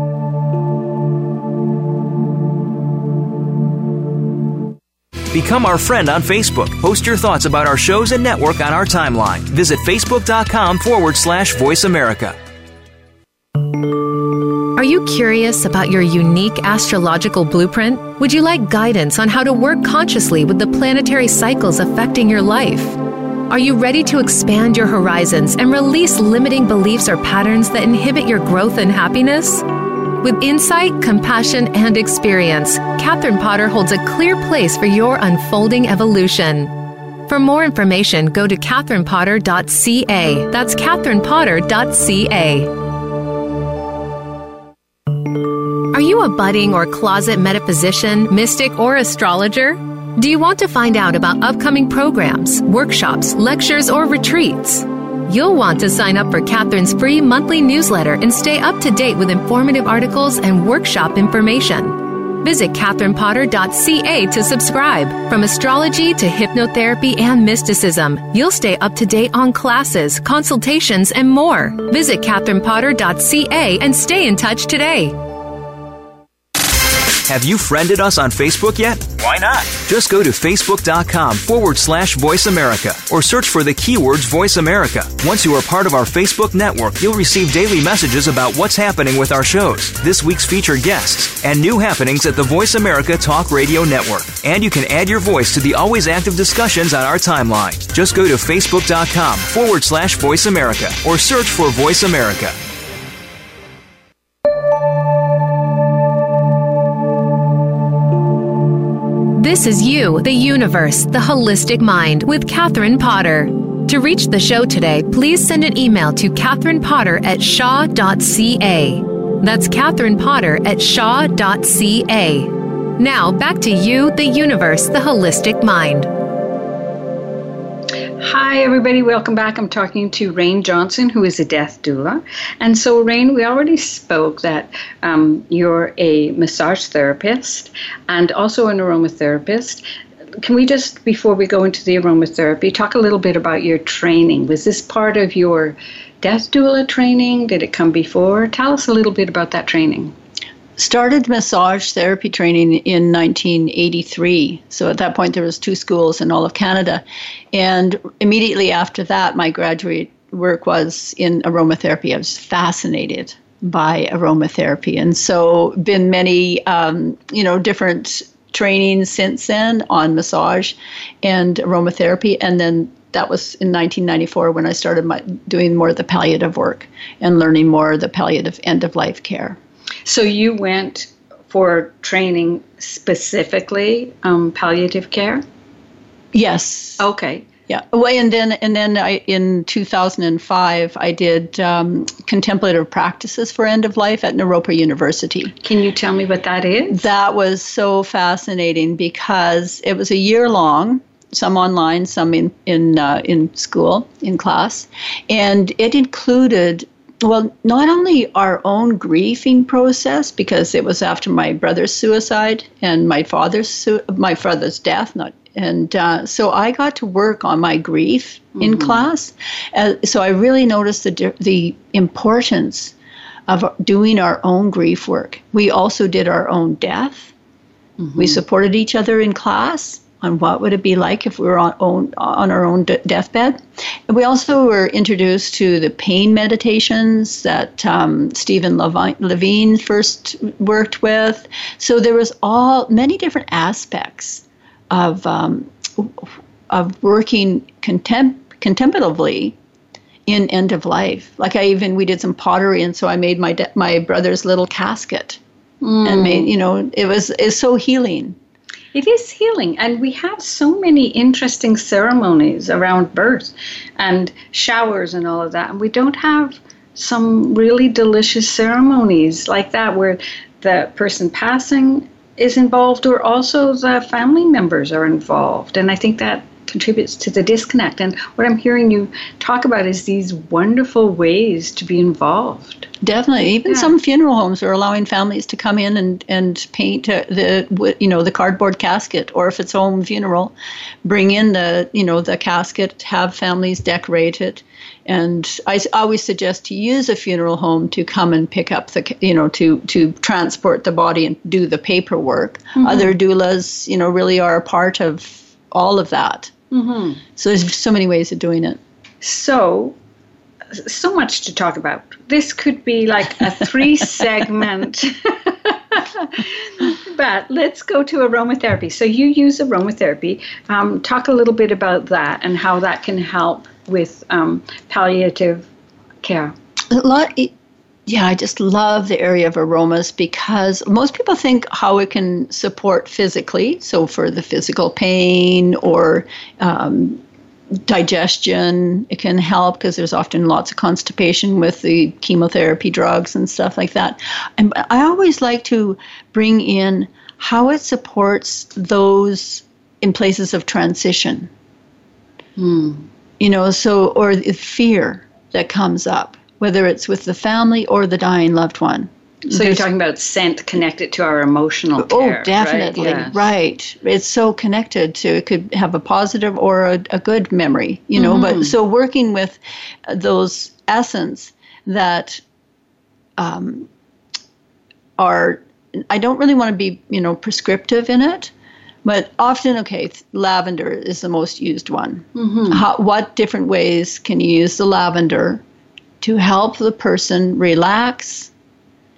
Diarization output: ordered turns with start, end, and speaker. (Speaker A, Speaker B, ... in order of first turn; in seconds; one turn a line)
Speaker A: 5.3-12.3
Speaker B: 14.7-29.7
Speaker B: 30.2-36.7
Speaker B: 37.3-42.8
Speaker B: 45.9-75.2
Speaker A: 77.3-102.5
Speaker B: 109.3-126.1
Speaker C: 128.2-139.8
Speaker C: 140.4-150.1
Speaker D: 150.8-179.6
Speaker C: 180.0-185.4
Speaker D: 186.3-187.0
Speaker C: 187.0-187.5
Speaker D: 187.7-195.5
Speaker C: 195.6-197.1
Speaker D: 196.9-222.9
Speaker C: 218.6-219.1
Speaker D: 223.5-227.3
Speaker C: 228.0-228.4
Speaker D: 228.2-249.6
Speaker D: 250.3-255.4
Speaker C: 255.8-256.5
Speaker D: 256.0-258.4
Speaker C: 258.9-282.9
Speaker D: 283.0-290.5
Speaker D: 291.0-306.5
Speaker C: 302.8-303.1
Speaker C: 306.7-307.2
Speaker D: 307.4-308.8
Speaker C: 309.2-309.9
Speaker C: 310.7-325.7
Speaker C: 326.2-326.5
Speaker D: 326.9-327.5
Speaker D: 328.1-337.2
Speaker D: 337.9-351.5
Speaker C: 352.6-353.1
Speaker D: 353.4-359.9
Speaker C: 359.5-363.5
Speaker D: 362.0-372.4
Speaker C: 368.1-368.7
Speaker D: 373.4-373.9
Speaker D: 375.2-378.5
Speaker D: 379.0-385.6
Speaker C: 382.3-382.8
Speaker D: 386.2-388.5